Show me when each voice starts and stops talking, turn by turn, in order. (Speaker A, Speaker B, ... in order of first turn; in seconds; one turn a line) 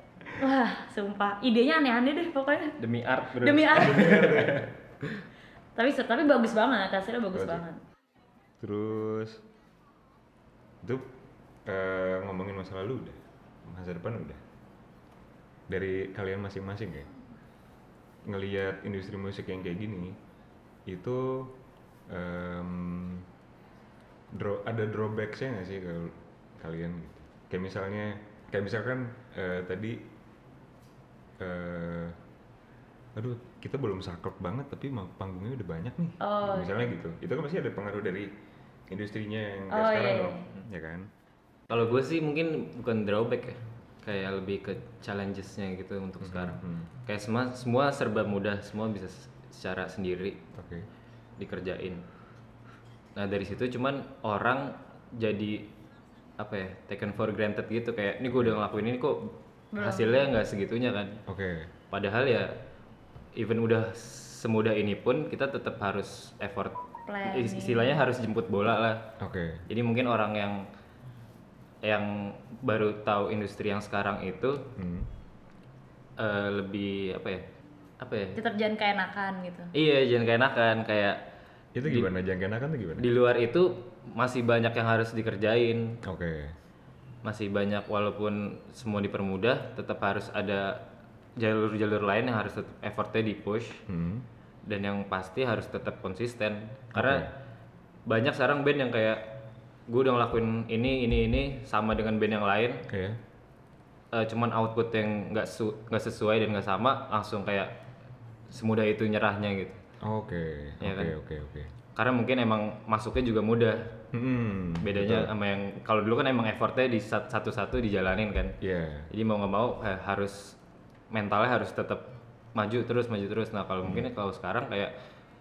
Speaker A: 0.3-2.8
Speaker B: 2.8-4.7
Speaker A: 3.4-4.4
Speaker C: 3.7-4.7
Speaker A: 5.8-7.8
Speaker C: 7.3-7.6
Speaker C: 8.6-9.4
Speaker C: 10.8-11.1
Speaker C: 11.7-14.4
Speaker C: 15.7-17.1
Speaker C: 18.2-20.2
Speaker C: 20.9-21.5
Speaker C: 22.1-23.3
Speaker C: 24.3-30.1
Speaker C: 31.4-32.2
Speaker C: 33.1-38.3
Speaker A: 36.2-36.9
Speaker C: 38.9-41.1
Speaker A: 39.7-40.4
Speaker B: 41.7-50.4
Speaker C: 46.2-46.9
Speaker C: 50.5-50.9
Speaker B: 51.4-52.0
Speaker B: 53.1-55.7
Speaker B: 56.4-61.2
Speaker C: 58.3-58.6
Speaker A: 59.7-60.3
Speaker C: 61.3-61.7
Speaker B: 61.9-62.5
Speaker B: 63.3-69.1
Speaker A: 67.1-68.0
Speaker C: 69.2-69.7
Speaker B: 69.7-70.6
Speaker B: 71.8-74.7
Speaker C: 74.7-75.1
Speaker B: 76.2-77.4
Speaker B: 78.0-78.4
Speaker A: 78.3-79.7
Speaker B: 79.7-81.2
Speaker C: 81.7-83.1
Speaker B: 81.8-82.1
Speaker B: 83.0-86.0
Speaker C: 86.0-86.5
Speaker B: 87.2-90.8
Speaker B: 91.4-93.8
Speaker C: 93.9-94.3
Speaker B: 94.7-97.3
Speaker C: 96.9-97.3
Speaker B: 98.1-102.8
Speaker C: 102.9-103.2
Speaker B: 104.1-107.7
Speaker B: 108.5-109.8
Speaker C: 110.0-111.7
Speaker B: 110.8-111.1
Speaker B: 111.9-114.0
Speaker C: 114.1-115.3
Speaker B: 114.8-118.5
Speaker C: 118.6-119.1
Speaker B: 119.1-120.6
Speaker B: 121.1-124.9